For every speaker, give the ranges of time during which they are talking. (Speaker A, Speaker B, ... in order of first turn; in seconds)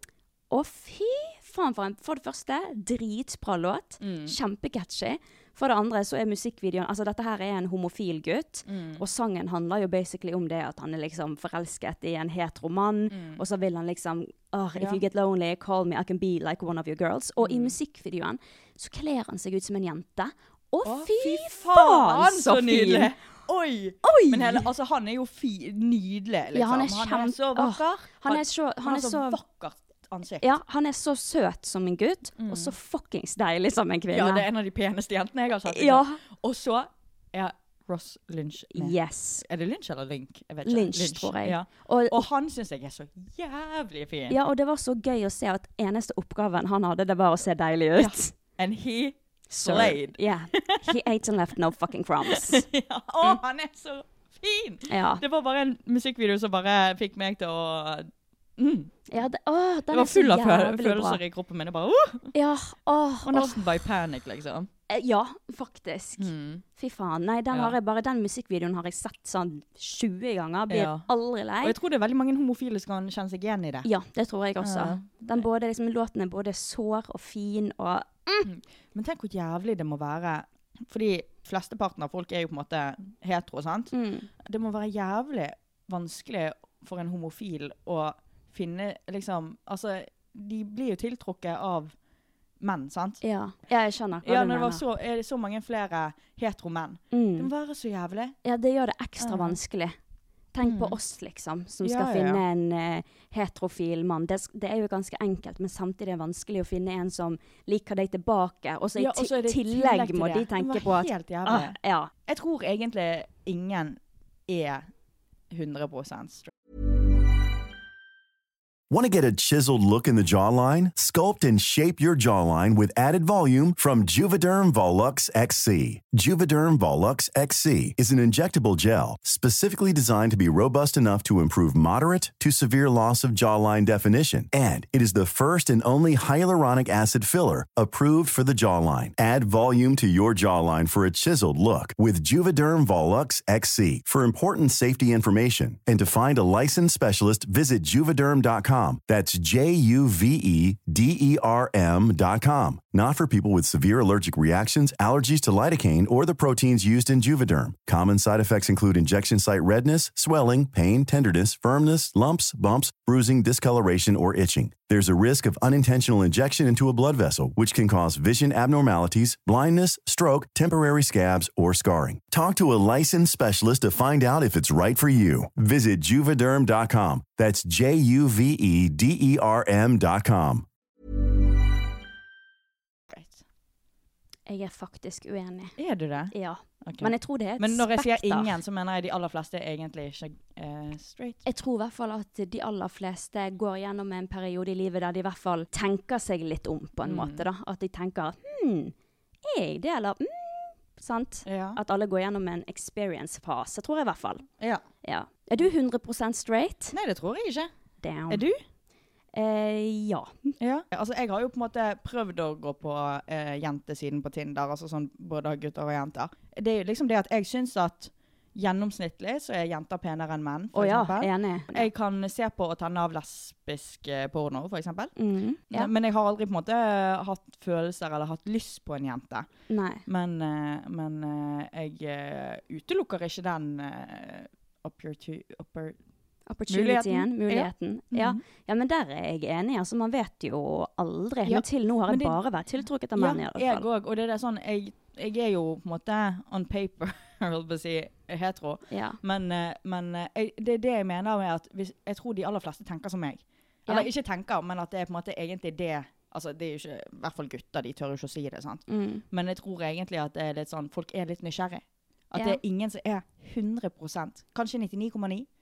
Speaker A: 0.5-23.1, 24.0-24.6, 26.5-29.4, 30.4-34.4, 35.7-36.2, 38.7-39.4, 40.6-42.2, 44.3-48.3, 49.5-52.6, 54.9-55.2, 59.1-61.2, 62.3-63.6, 64.9-71.7, 73.8-78.5, 83.9-84.3, 93.2-94.8, 97.1-97.5, 98.4-100.0, 100.5-112.1, 184.5-185.8, 186.3-188.5, 191.4-198.9, 199.4-204.4, 205.0-206.9, 208.0-208.4, 209.3-210.5, 220.7-221.9, 225.2-225.9, 229.7-230.0, 236.5-243.8, 248.9-249.2, 258.9-259.2
Speaker B: 4.0-4.3, 8.7-9.0, 13.1-13.4, 14.8-15.0, 17.4-17.8, 20.8-30.5, 32.4-32.7, 34.1-44.4, 48.0-51.0, 52.2-59.0, 59.9-62.3, 63.2-64.7, 66.2-66.6, 67.5-67.8, 70.7-71.1, 71.6-73.9, 74.6-75.5, 78.4-91.9, 92.6-93.2, 94.2-98.3, 99.2-99.6, 100.6-101.0, 101.8-102.4, 109.0-114.9, 115.5-116.5, 183.1-183.4, 185.8-191.4, 197.0-197.5, 201.4-201.8, 206.9-207.7, 208.3-208.6, 210.6-225.1, 225.7-229.5, 230.1-236.0, 236.7-238.4, 241.4-242.4, 243.1-265.5
Speaker C: 118.9-180.7